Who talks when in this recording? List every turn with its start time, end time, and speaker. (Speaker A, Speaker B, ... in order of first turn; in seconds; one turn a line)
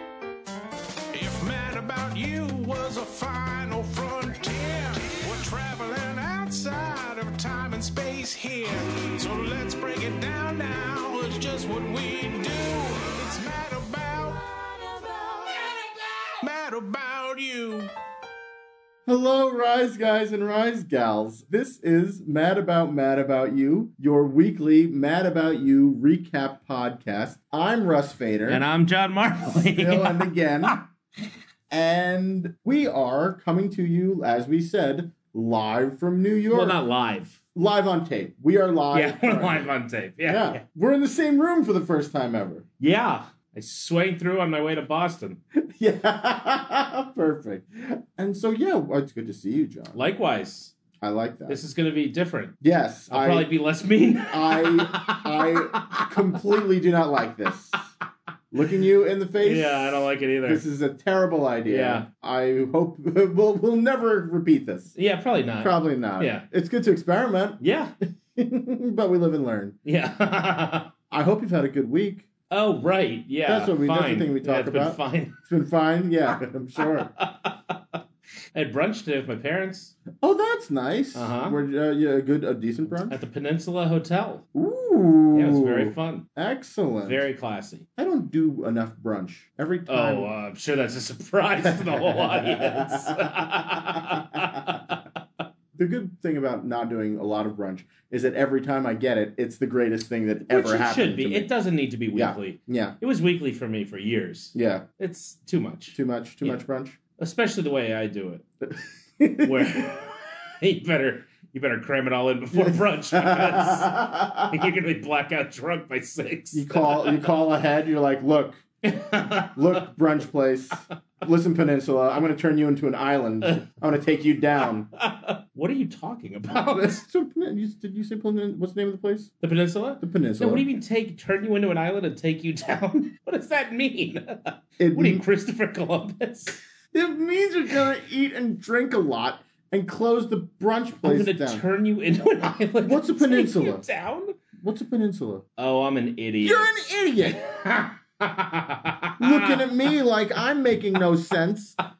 Speaker A: 1.1-14.5
Speaker A: 15.3-15.7
Speaker A: 16.4-17.9
Speaker B: 19.1-28.6
Speaker C: 28.5-30.8
Speaker B: 29.5-30.8
Speaker B: 31.7-36.8
Speaker C: 36.5-37.4
Speaker B: 37.5-39.7
Speaker C: 38.9-40.6
Speaker B: 40.3-42.6
Speaker C: 42.8-45.4
Speaker B: 45.6-50.0
Speaker C: 49.9-50.7
Speaker B: 51.0-51.6
Speaker C: 51.5-52.6
Speaker B: 52.6-53.5
Speaker C: 53.1-56.4
Speaker B: 54.3-57.8
Speaker B: 58.5-64.9
Speaker C: 59.4-60.6
Speaker C: 61.7-62.1
Speaker C: 65.0-66.5
Speaker B: 65.6-67.6
Speaker C: 67.6-67.9
Speaker B: 68.4-69.8
Speaker C: 69.8-70.9
Speaker B: 71.1-72.3
Speaker C: 72.5-75.4
Speaker B: 73.5-77.1
Speaker C: 76.8-77.8
Speaker C: 78.5-80.0
Speaker B: 80.2-83.2
Speaker C: 81.2-81.6
Speaker C: 83.1-84.5
Speaker B: 84.5-87.2
Speaker C: 85.3-86.3
Speaker C: 87.0-87.8
Speaker B: 88.0-90.3
Speaker C: 89.9-95.0
Speaker B: 91.6-94.4
Speaker B: 95.8-101.5
Speaker C: 100.5-106.6
Speaker B: 102.1-103.0
Speaker B: 104.5-104.9
Speaker B: 105.9-107.0
Speaker C: 107.2-108.5
Speaker B: 108.7-110.0
Speaker C: 109.4-110.0
Speaker C: 110.6-117.2
Speaker B: 112.5-114.6
Speaker B: 116.5-118.6
Speaker C: 118.8-119.9
Speaker B: 119.3-124.9
Speaker C: 125.0-127.0
Speaker B: 126.5-129.3
Speaker C: 129.4-136.6
Speaker B: 130.0-130.7
Speaker B: 134.8-135.2
Speaker B: 136.9-141.7
Speaker C: 141.0-144.4
Speaker B: 142.8-143.8
Speaker B: 144.6-145.4
Speaker C: 145.6-146.7
Speaker B: 146.4-147.4
Speaker C: 147.3-149.9
Speaker B: 149.2-151.8